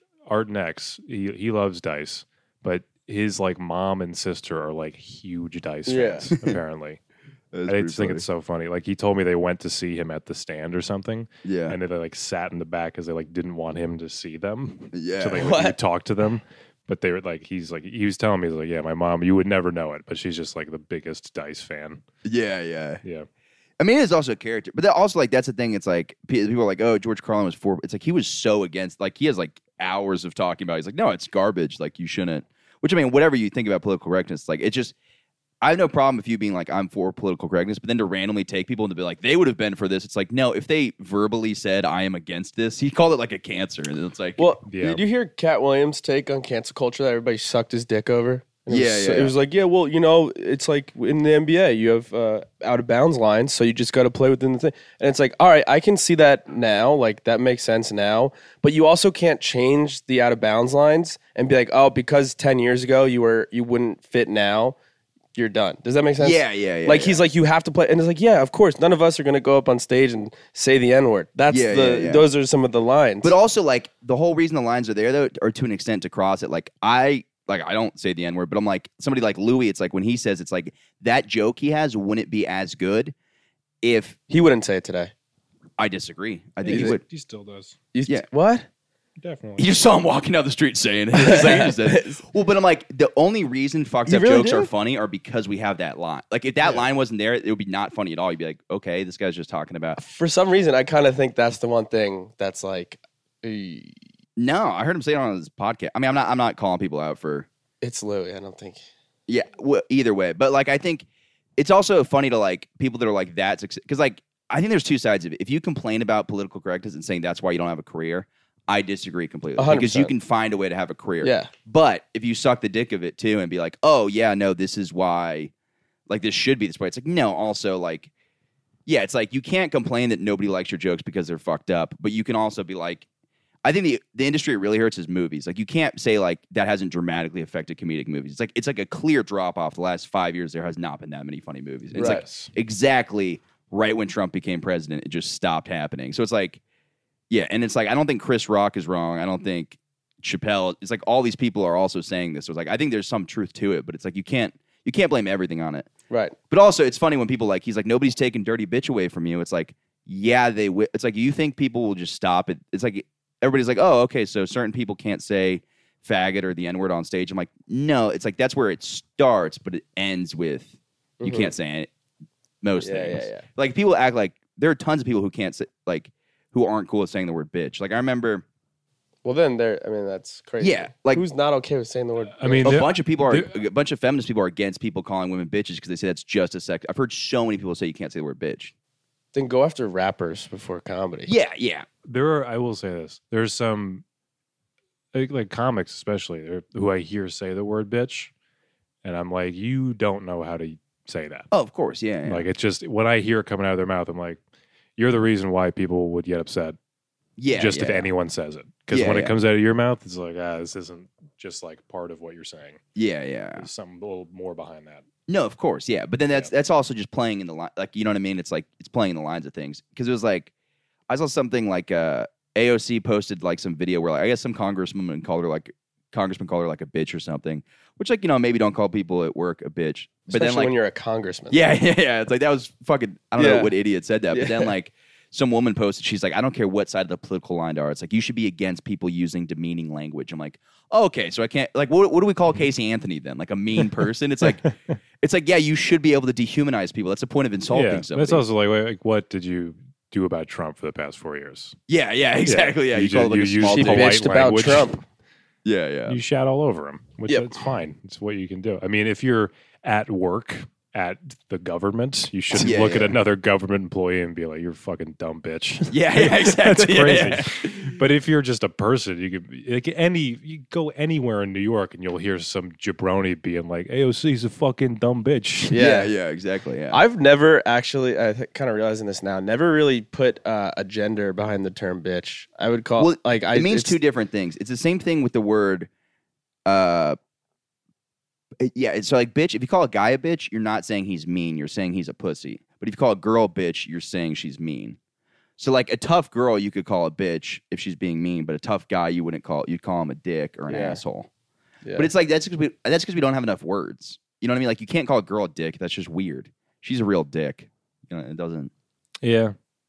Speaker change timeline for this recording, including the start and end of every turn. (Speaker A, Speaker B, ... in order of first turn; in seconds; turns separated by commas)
Speaker A: 0.3-7.0, Speaker B: 5.8-6.3, Speaker C: 6.3-6.6, Speaker C: 7.5-8.2, Speaker A: 7.7-22.0, Speaker C: 11.4-11.8, Speaker C: 14.9-15.6, Speaker B: 15.3-15.7, Speaker C: 22.2-23.0, Speaker C: 23.8-35.0, Speaker C: 35.6-44.5, Speaker B: 44.4-64.8, Speaker A: 44.7-45.0, Speaker C: 48.7-49.3, Speaker B: 65.3-73.3, Speaker C: 66.2-67.2, Speaker C: 71.5-72.3, Speaker C: 73.2-83.1, Speaker C: 83.8-84.2, Speaker B: 84.3-85.1, Speaker C: 85.8-87.0, Speaker A: 86.6-87.8, Speaker B: 86.7-87.0, Speaker B: 87.9-88.7, Speaker A: 89.2-89.7, Speaker C: 89.6-100.0, Speaker B: 91.2-92.2, Speaker B: 94.1-94.7, Speaker B: 100.0-104.0, Speaker C: 104.4-107.5, Speaker B: 107.8-108.8, Speaker C: 109.3-111.0, Speaker C: 111.6-125.5, Speaker B: 119.6-120.1, Speaker B: 121.2-121.5, Speaker C: 126.1-128.1, Speaker C: 128.8-133.1, Speaker C: 133.6-146.6, Speaker B: 141.9-142.2, Speaker A: 142.0-142.5, Speaker C: 147.3-155.9, Speaker B: 156.1-156.3, Speaker C: 156.5-171.9, Speaker B: 171.2-171.5, Speaker C: 172.6-178.4, Speaker B: 172.8-173.4, Speaker B: 179.2-182.8, Speaker C: 180.6-181.2, Speaker A: 182.3-183.5, Speaker C: 182.6-188.7, Speaker B: 189.3-191.3, Speaker C: 191.3-191.9, Speaker A: 192.0-194.0, Speaker A: 195.1-198.3, Speaker A: 199.0-201.5, Speaker C: 201.5-202.5, Speaker A: 202.2-204.4, Speaker A: 205.0-206.8, Speaker C: 207.4-208.1, Speaker A: 207.5-212.8, Speaker C: 208.9-209.3, Speaker C: 212.9-213.7, Speaker A: 213.6-215.0, Speaker C: 215.3-220.5, Speaker C: 221.1-230.7, Speaker B: 230.3-231.6, Speaker C: 231.5-248.4, Speaker B: 233.4-233.7, Speaker B: 234.3-234.7, Speaker A: 247.7-251.8, Speaker C: 251.9-254.2, Speaker A: 252.4-254.9, Speaker B: 253.6-255.0, Speaker C: 255.6-256.2, Speaker A: 256.1-275.8, Speaker C: 262.5-263.1, Speaker C: 265.9-267.7, Speaker B: 275.7-276.1, Speaker C: 275.7-277.0, Speaker B: 276.9-284.0, Speaker C: 283.0-285.9, Speaker C: 286.6-287.2, Speaker C: 288.6-295.0, Speaker C: 295.6-301.3, Speaker B: 300.7-301.0, Speaker B: 301.8-302.1, Speaker C: 301.9-308.7, Speaker A: 309.2-309.6